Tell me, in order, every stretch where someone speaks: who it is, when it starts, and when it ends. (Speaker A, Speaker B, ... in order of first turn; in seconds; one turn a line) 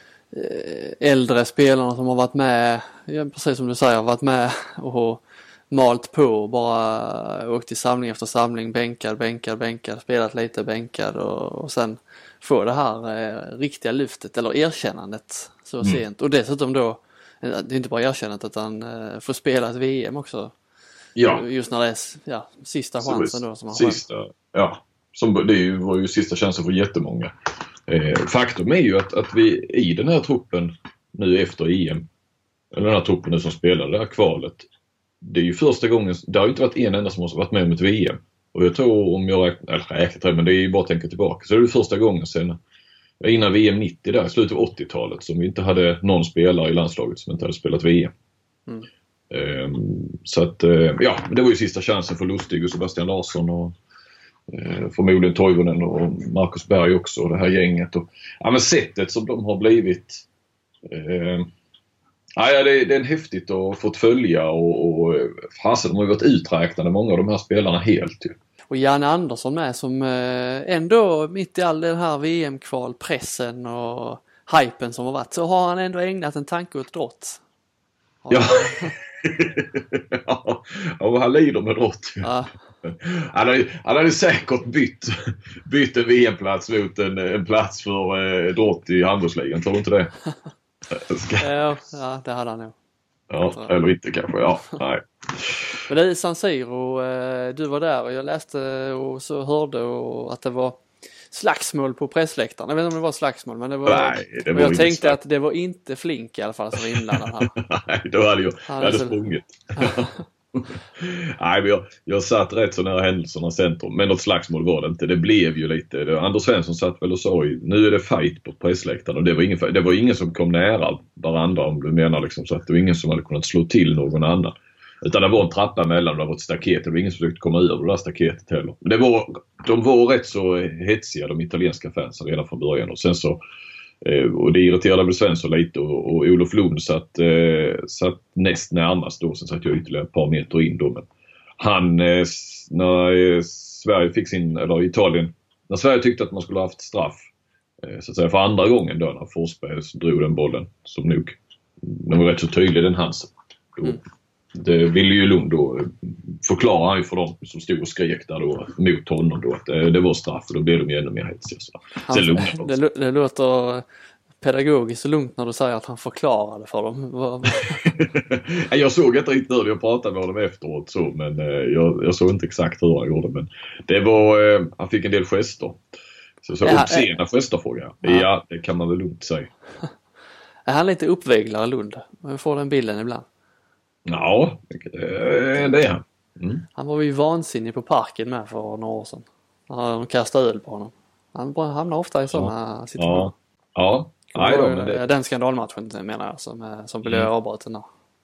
Speaker A: 0.3-20.5
Speaker B: 21.2-21.4
Speaker A: 21.2-24.0
Speaker B: 23.0-27.3
Speaker B: 27.9-32.1
Speaker B: 32.7-34.7
Speaker B: 35.2-42.6
Speaker B: 43.2-48.1
Speaker B: 49.3-53.8
Speaker B: 54.5-60.2
Speaker B: 60.9-61.5
Speaker B: 62.4-68.4
Speaker A: 68.7-77.4
Speaker A: 78.2-79.0
Speaker B: 78.3-82.3
Speaker A: 82.2-82.5
Speaker B: 82.8-90.1
Speaker B: 90.9-91.5
Speaker A: 91.4-92.8
Speaker B: 93.3-95.8
Speaker A: 95.9-107.5
Speaker B: 103.9-105.2
Speaker B: 106.8-133.4
Speaker A: 108.7-109.2
Speaker A: 109.8-110.2
Speaker B: 134.0-141.1
Speaker B: 141.6-147.3
Speaker B: 147.8-154.0
Speaker B: 154.5-162.7
Speaker A: 162.0-163.8
Speaker A: 164.4-168.0
Speaker B: 167.8-175.8
Speaker B: 176.4-179.5
Speaker A: 176.6-177.2
Speaker A: 180.7-183.2
Speaker B: 184.1-186.6
Speaker A: 186.8-193.3
Speaker B: 192.3-195.0
Speaker A: 194.3-197.9
Speaker B: 197.1-197.3